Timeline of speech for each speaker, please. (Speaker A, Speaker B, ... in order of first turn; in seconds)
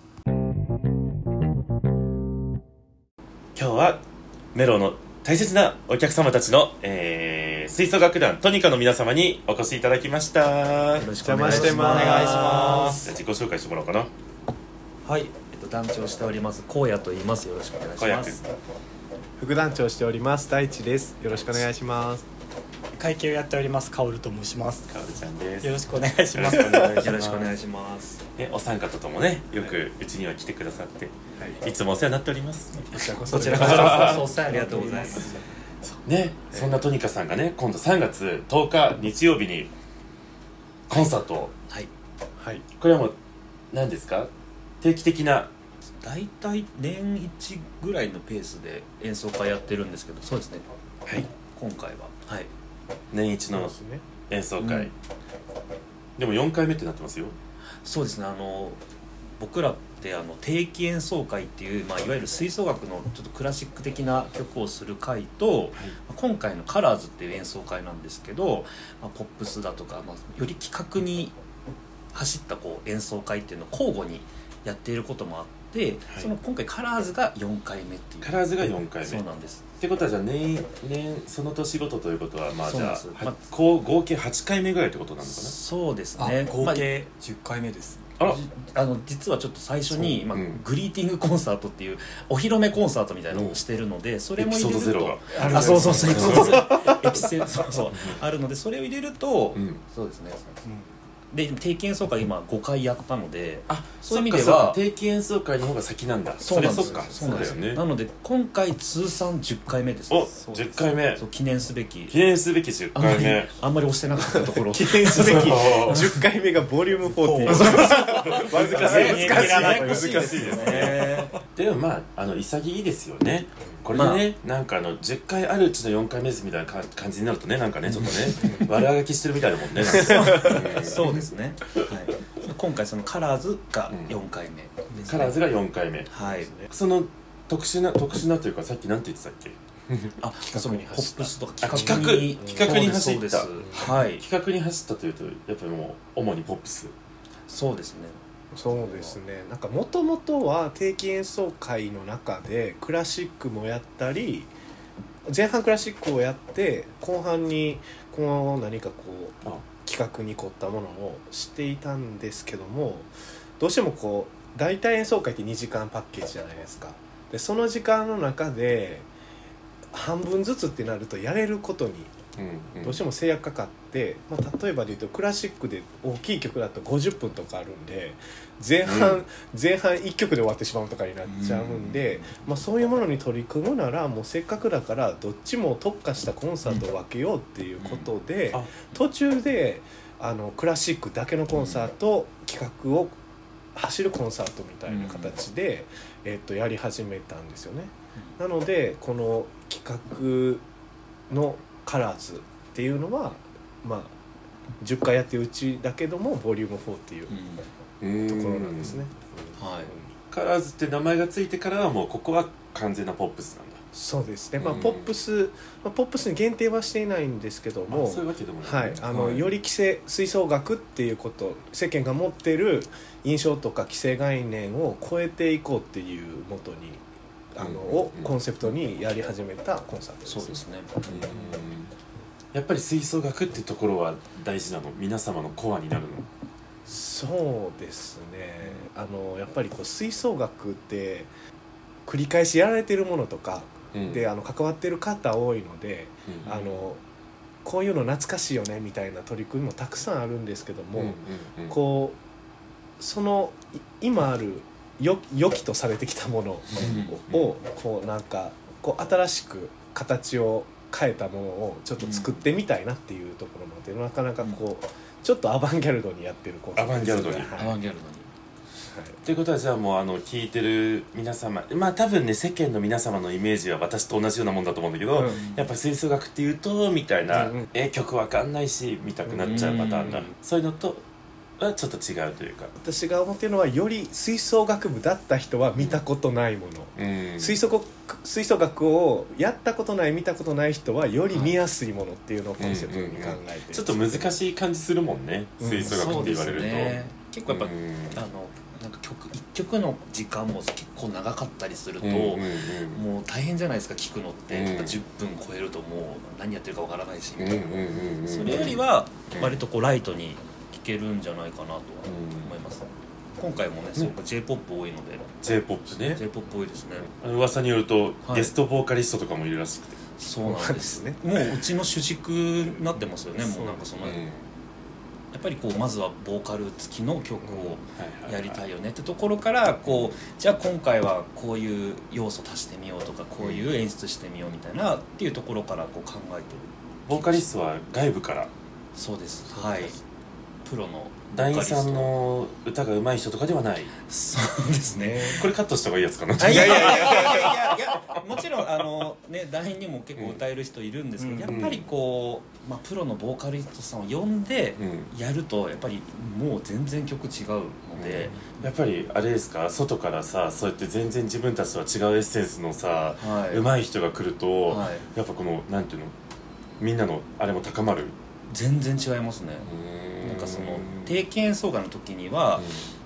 Speaker A: 3.5-4.0, 4.5-11.1, 12.2-14.1, 18.0-18.5, 24.9-27.5, 28.4-33.0, 33.5-34.3, 36.0-39.7, 40.9-41.5, 42.8-43.1, 43.7-44.3, 44.8-45.5, 53.1-53.7, 54.3-54.9, 56.2-57.4, 78.2-79.2, 79.8-85.5, 86.5-86.9, 89.9-90.6, 93.3-93.6, 94.4-97.2, 97.9-98.2, 99.5-99.8, 103.7-107.8, 110.1-111.2, 112.1-113.5, 115.1-116.0, 117.5-131.3, 133.9-134.1, 135.1-136.1, 136.7-140.1, 141.6-146.9, 172.4-173.0, 178.8-179.2, 208.0-209.0, 210.3-213.8, 214.6-215.1, 217.9-219.5, 227.6-228.3, 231.1-231.9, 232.5-236.2, 243.9-244.3, 246.3-246.8, 251.0-251.8, 256.8-257.5, 266.8-267.5, 269.2-281.0, 281.6-282.7, 287.0-287.6, 292.6-298.2, 302.0-303.0, 304.5-305.0, 307.4-309.6, 312.0-312.5, 315.4-316.2, 317.1-320.0, 324.0-324.4, 328.0-328.6, 329.9-330.1, 333.4-333.7, 337.1-338.5, 341.3-343.9, 345.3-347.6, 348.1-348.4, 351.5-351.9, 354.8-355.1, 357.9-366.1, 366.8-368.1, 369.6-371.2, 372.6-372.8
Speaker B: 10.9-12.7, 15.0-18.5, 26.9-28.2, 32.9-35.3, 46.0-50.6, 51.4-52.5, 54.6-54.9, 57.8-58.8, 59.4-71.3, 72.1-79.6, 82.7-83.5, 85.3-86.5, 88.2-100.6, 101.3-104.8, 106.4-110.3, 111.2-112.2, 112.9-116.2, 117.5-121.3, 123.9-124.2, 127.9-128.7, 129.8-135.4, 136.1-136.5, 140.2-144.2, 147.5-148.2, 148.7-149.1, 181.2-182.4, 187.8-188.1, 194.9-195.3, 207.3-207.6, 209.6-209.9, 219.1-219.4, 230.2-231.5, 256.7-257.2, 262.0-262.4, 267.6-268.3, 279.3-280.3, 295.8-312.9, 313.4-315.3, 316.1-317.1, 318.2-318.5, 320.2-324.2, 325.3-337.5, 338.9-340.0, 340.6-342.1, 344.0-345.4, 346.4-358.4, 363.2-363.6, 364.7-365.1, 368.5-372.7
Speaker C: 11.2-13.0, 19.4-22.2, 32.9-34.4, 42.4-42.6, 53.5-54.0, 95.5-97.0, 106.6-107.5, 114.2-121.0, 136.3-136.7, 140.4-142.7, 143.6-143.9, 148.5-154.5, 155.2-169.1, 169.9-172.2, 172.8-193.1, 193.7-200.6, 201.3-204.1, 204.8-207.3, 208.2-210.1, 213.9-227.0, 227.5-230.6, 236.8-241.3, 242.1-247.0, 247.6-252.2, 253.0-267.8, 268.9-269.2, 275.1-275.5, 277.3-277.7, 282.8-294.3, 295.6-296.1, 320.4-321.5, 323.4-323.9, 327.4-327.8, 339.7-339.9, 344.9-345.5, 346.4-347.6
Speaker D: 11.4-13.1, 22.9-24.9, 25.6-27.0, 33.2-35.4, 86.2-88.0, 95.4-96.4, 100.6-100.9, 110.4-110.8, 117.1-118.0, 118.7-121.1, 351.2-351.6